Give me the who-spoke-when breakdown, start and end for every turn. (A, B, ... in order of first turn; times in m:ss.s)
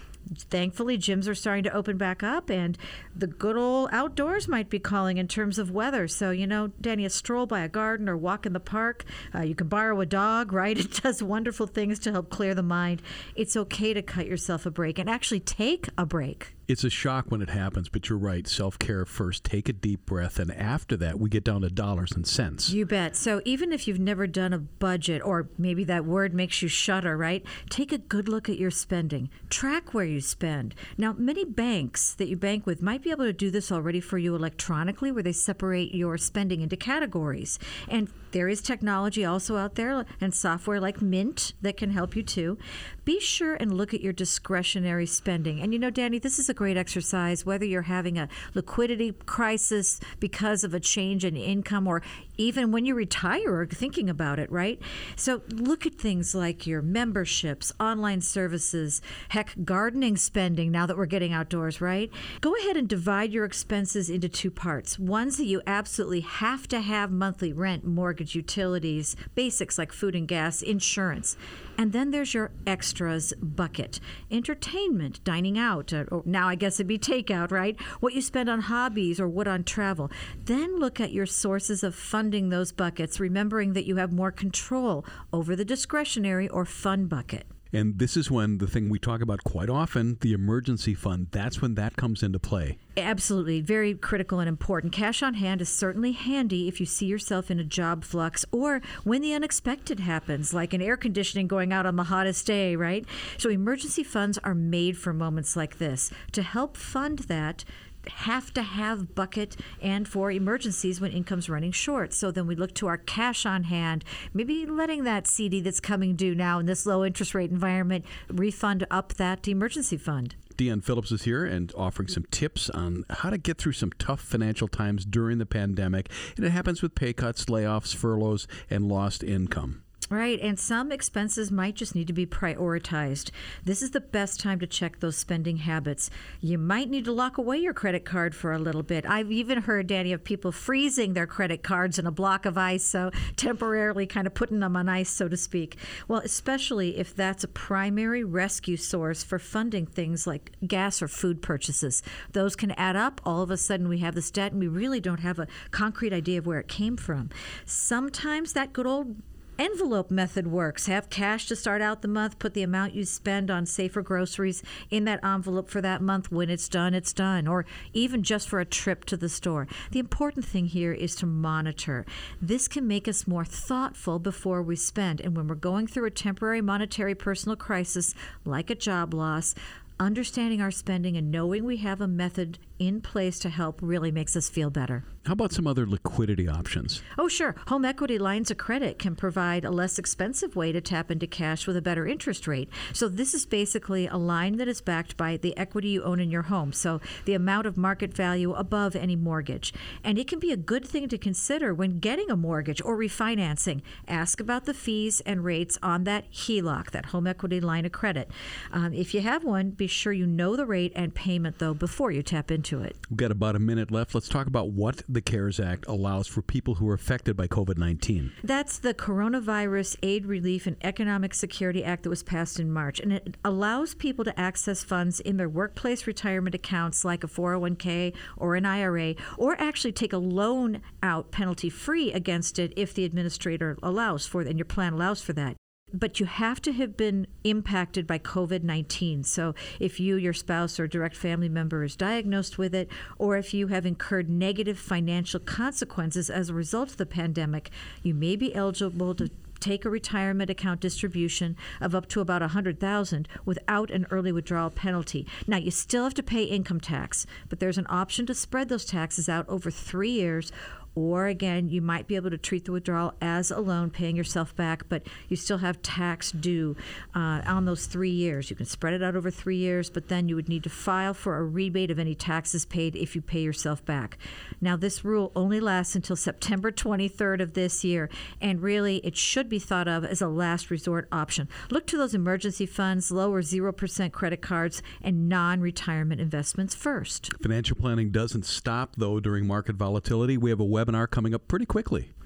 0:00.5-0:16.5 A
0:16.7-0:22.7 B
0:22.7-1:27.5 A
1:27.7-1:32.8 B
1:33.0-2:00.4 A
2:00.6-2:09.8 B
2:10.1-3:05.1 A
3:05.2-3:07.0 B
3:07.2-3:33.0 A
3:33.1-3:38.3 B
3:38.4-4:47.3 A
4:47.4-4:52.1 B